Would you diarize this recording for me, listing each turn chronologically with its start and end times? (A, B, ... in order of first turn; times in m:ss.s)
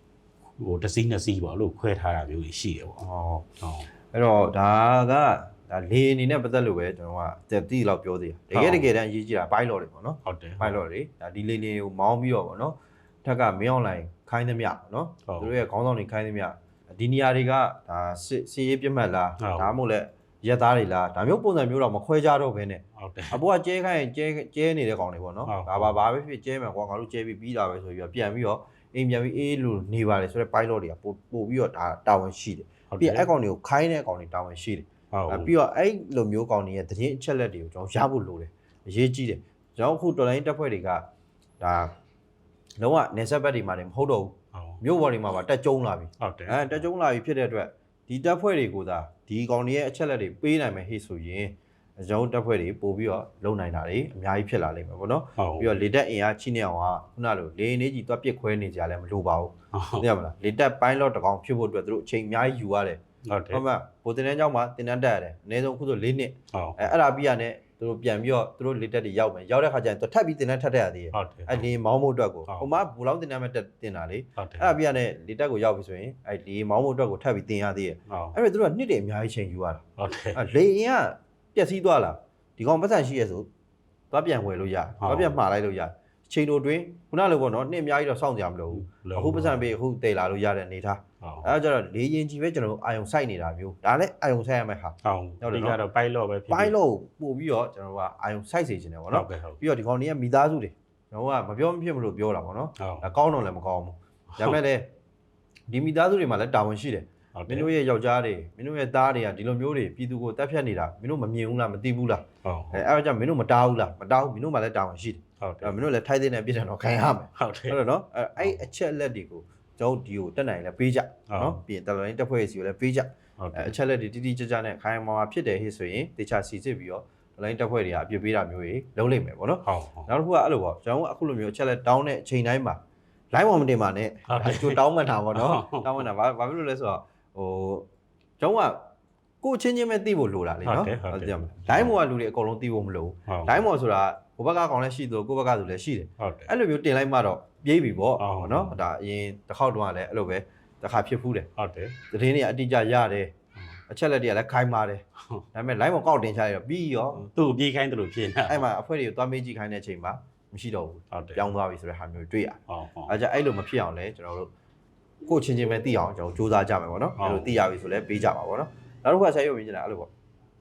0:00.6-0:03.0 A
0:03.0-0:03.4 B
0:03.6-0:03.9 A
0:04.1-0:41.0 B
0:08.5-0:08.9 A
0:10.2-0:10.8 A
0:15.2-0:15.5 A
0:19.4-0:19.7 A
0:23.0-0:23.4 A
0:25.5-0:26.0 A
0:32.9-0:33.3 A
0:35.1-0:35.5 A
0:41.6-0:41.9 B
0:42.8-1:03.0 B
0:44.5-0:44.8 A
0:46.2-0:46.8 A
0:55.4-0:55.7 A
0:59.7-1:00.0 A
1:03.3-1:03.6 A
1:03.5-1:19.8 B
1:06.5-1:06.8 A
1:11.1-1:11.7 A
1:12.5-1:12.7 A
1:14.4-1:14.8 A
1:18.1-1:18.3 A
1:20.0-1:20.4 A
1:20.3-1:23.5 B
1:24.1-1:35.8 B
1:25.0-1:25.4 A
1:28.7-1:29.6 A
1:31.2-1:31.5 A
1:35.0-1:36.7 A
1:36.5-1:44.9 B
1:39.1-1:39.6 A
1:42.8-1:43.0 A
1:45.7-2:12.8 B
1:47.3-1:47.7 A
1:52.4-1:52.8 A
1:55.4-1:55.8 A
1:57.4-1:57.8 A
1:58.4-1:58.7 A
2:01.3-2:01.6 A
2:03.4-2:03.7 A
2:09.6-2:10.1 A
2:13.3-2:17.9 B
2:14.3-2:14.8 A
2:15.3-2:16.0 A
2:18.4-2:18.8 B
2:19.4-2:31.5 B
2:20.6-2:21.9 A
2:23.3-2:23.6 A
2:26.2-2:26.5 A
2:28.2-2:28.8 A
2:31.6-2:32.0 A
2:32.1-2:33.3 B
2:33.9-2:35.0 B
2:35.5-2:37.2 B
2:37.2-2:38.6 A
2:38.5-2:44.5 B
2:41.1-2:41.4 A
2:42.7-2:43.1 A
2:45.2-2:50.1 B
2:47.2-2:47.5 A